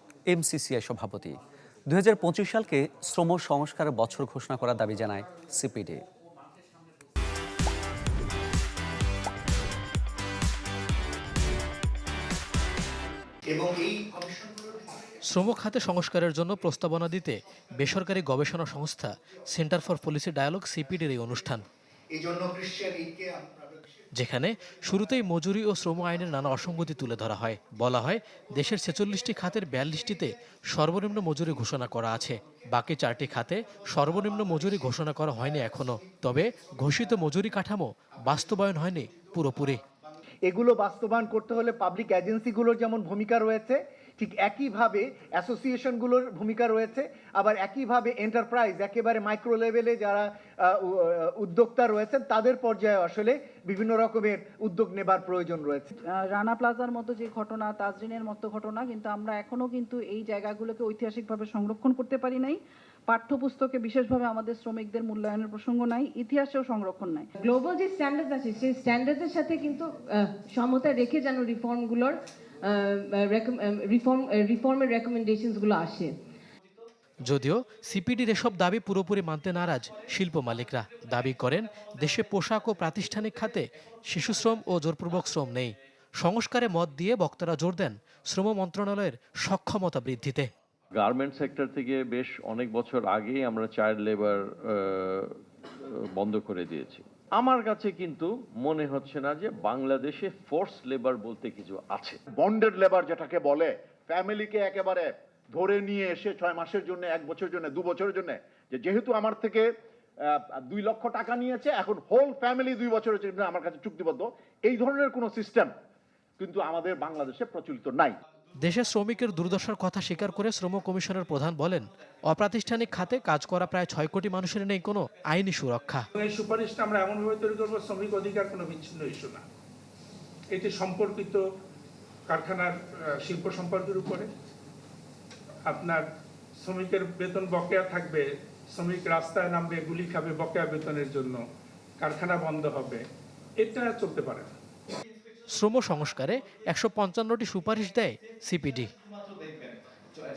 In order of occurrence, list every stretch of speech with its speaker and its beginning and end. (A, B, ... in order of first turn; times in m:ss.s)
0:00.3-0:01.4 A
0:01.9-0:06.0 A
0:13.5-0:14.5 B
0:15.3-0:21.6 C
0:22.1-0:23.7 B
0:24.1-0:39.8 C
0:40.4-0:55.9 B
0:56.0-1:07.3 D
1:07.4-1:16.2 E
1:17.2-1:30.5 C
1:31.0-1:35.3 F
1:35.8-1:42.2 F
1:42.4-1:49.7 G
1:50.2-1:55.7 G
1:56.4-1:58.1 G
1:58.6-2:06.0 C
2:06.1-2:09.4 H
2:10.5-2:11.4 H
2:12.3-2:14.3 H
2:15.6-2:16.0 H
2:16.6-2:21.4 H
2:22.0-2:23.0 H
2:23.6-2:24.6 H
2:25.5-2:28.9 C